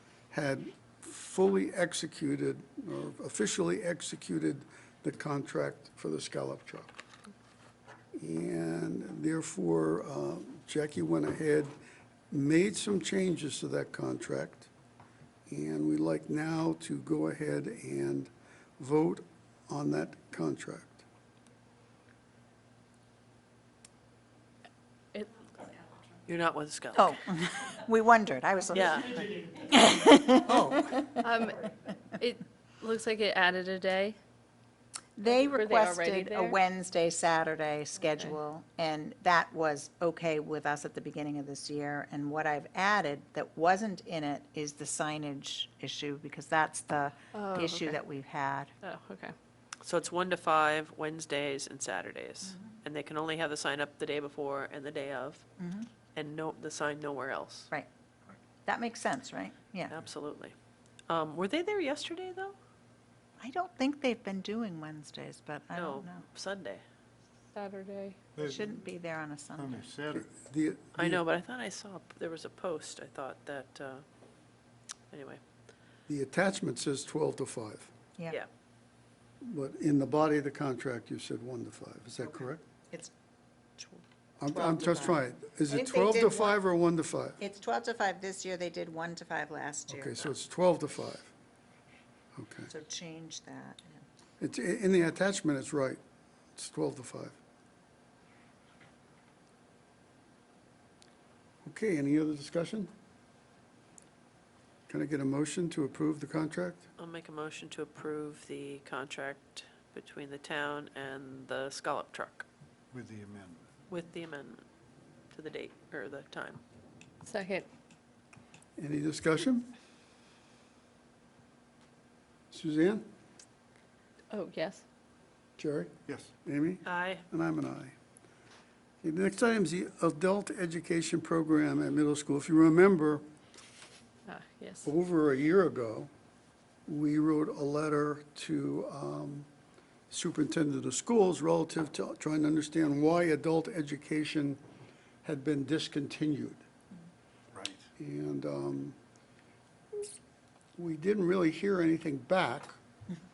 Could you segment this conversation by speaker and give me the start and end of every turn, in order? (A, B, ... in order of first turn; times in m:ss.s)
0:00.3-0:07.0 A
0:08.2-0:11.7 A
0:12.3-0:14.7 A
0:15.5-0:21.0 A
0:25.1-0:25.7 B
0:26.3-0:27.2 C
0:27.0-0:31.3 D
0:28.7-0:29.3 C
0:31.2-0:31.6 B
0:32.2-0:34.2 B
0:35.2-0:48.7 D
0:35.2-0:36.6 B
0:47.3-0:48.0 B
0:48.8-0:49.4 B
0:49.8-0:55.4 C
0:52.5-0:52.7 D
0:55.6-0:55.9 D
0:56.2-0:57.7 C
0:58.6-0:59.9 D
0:59.9-1:00.6 C
1:01.1-1:02.6 C
1:03.4-1:06.2 D
1:05.7-1:06.8 C
1:07.5-1:08.2 B
1:08.4-1:08.7 E
1:08.4-1:09.9 D
1:09.6-1:10.3 E
1:10.1-1:11.2 A
1:11.0-1:14.0 C
1:15.1-1:15.4 C
1:16.1-1:17.9 A
1:19.4-1:22.6 A
1:22.2-1:23.1 D
1:23.8-1:24.0 C
1:24.4-1:27.4 A
1:24.5-1:26.6 D
1:27.4-1:30.2 D
1:29.9-1:31.3 A
1:32.4-1:32.7 A
1:32.7-1:34.0 D
1:34.4-1:36.0 A
1:36.6-1:37.4 A
1:41.6-1:42.9 A
1:44.9-1:46.9 A
1:47.0-1:52.4 C
1:52.9-1:53.6 E
1:53.9-1:54.6 C
1:55.3-1:56.6 C
1:57.2-1:57.7 B
1:58.8-1:59.7 A
2:02.5-2:03.1 A
2:04.3-2:04.8 B
2:05.6-2:07.9 A
2:06.8-2:07.2 C
2:09.0-2:13.3 A
2:14.3-2:14.9 B
2:14.8-2:16.1 A
2:16.9-2:19.5 A
2:20.1-2:24.6 A
2:25.2-2:26.6 A
2:27.5-2:27.9 E
2:28.0-2:29.0 A
2:30.8-2:32.8 A